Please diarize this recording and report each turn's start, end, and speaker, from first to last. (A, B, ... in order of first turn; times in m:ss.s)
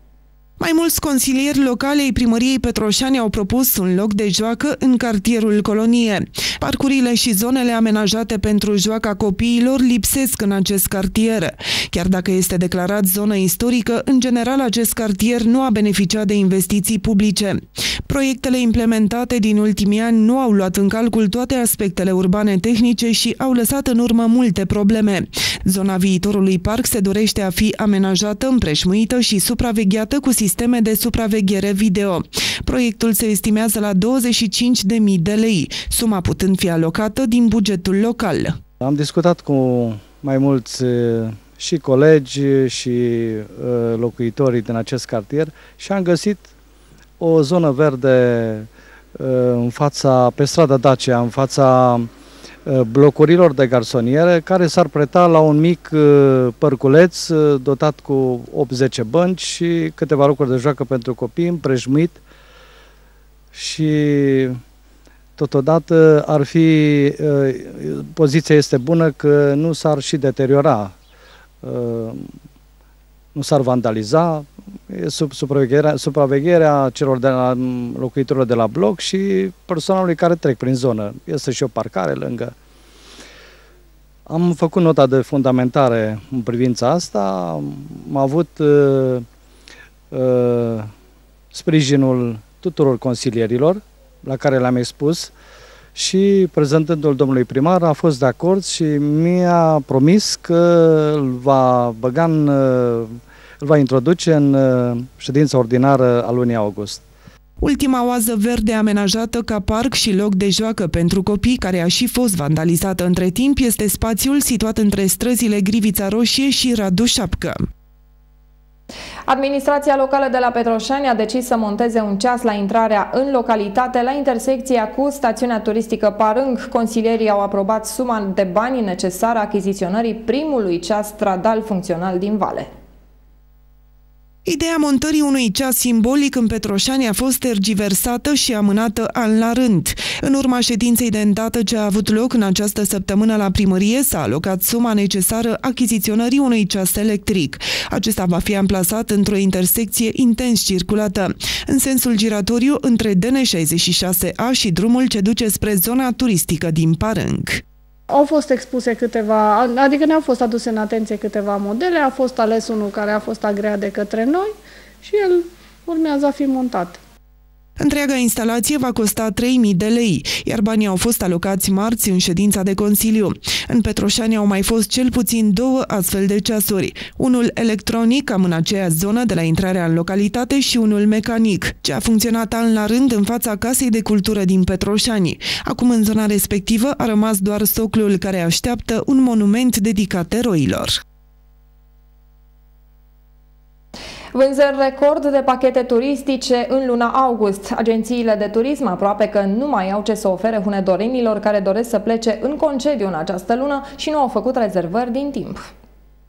0:00.6-0:38.5 A
0:38.8-0:46.5 B
0:47.2-0:52.1 B
0:52.6-1:02.2 B
1:03.5-1:04.6 B
1:05.4-1:10.9 B
1:11.6-1:12.3 B
1:13.3-1:22.5 B
1:24.3-1:29.2 B
1:30.1-1:30.9 B
1:31.5-1:35.3 B
1:35.9-1:47.0 B
1:47.6-1:57.6 A
1:59.3-2:12.7 C
2:14.4-2:37.6 A
2:38.1-2:47.0 D
2:47.8-3:11.0 A
3:14.3-3:25.6 C